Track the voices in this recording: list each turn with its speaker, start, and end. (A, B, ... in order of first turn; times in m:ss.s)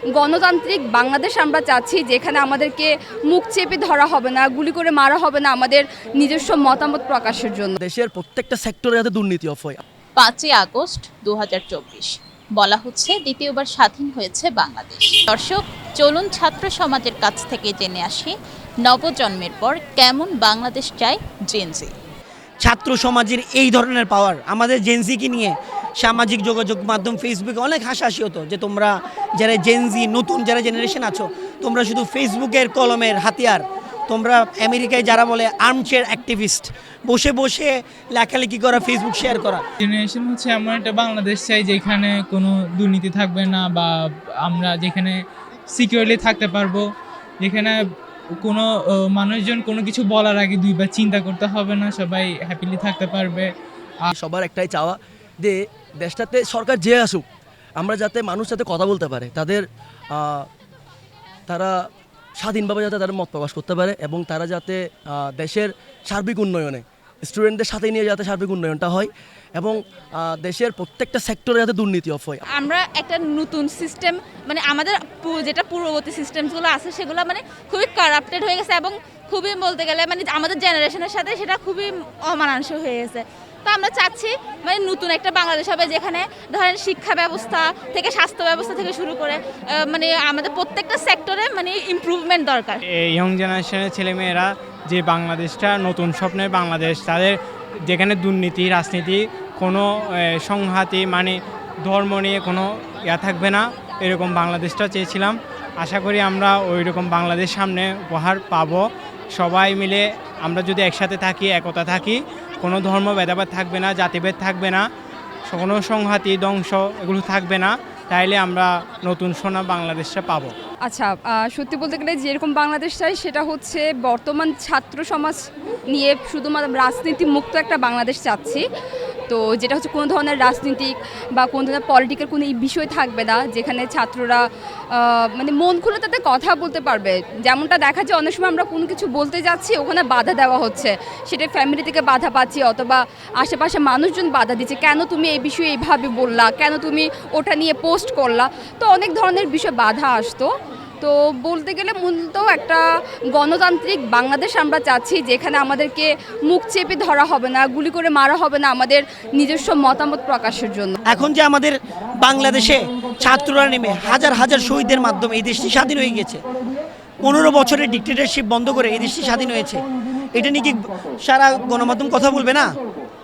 0:00.2-0:07.8 A
0:07.8-0:09.8 B
0:10.2-0:21.9 C
0:22.6-0:39.6 D
0:39.8-0:45.2 E
0:45.7-0:46.8 E
0:47.4-0:47.8 E
0:48.4-0:53.5 E
0:54.1-0:57.2 B
0:57.8-1:00.4 B
1:01.5-1:01.7 B
1:02.4-1:12.4 B
1:12.6-1:32.8 F
1:32.9-1:37.4 G
1:37.9-1:48.8 G
1:49.3-1:54.8 G
1:55.5-2:00.5 G
2:00.9-2:05.4 A
2:05.9-2:08.6 A
2:09.3-2:14.4 A
2:14.9-2:30.5 A
2:31.0-2:32.8 A
2:33.4-2:41.0 A
2:41.1-2:46.4 D
2:47.2-2:49.8 D
2:50.3-2:52.7 D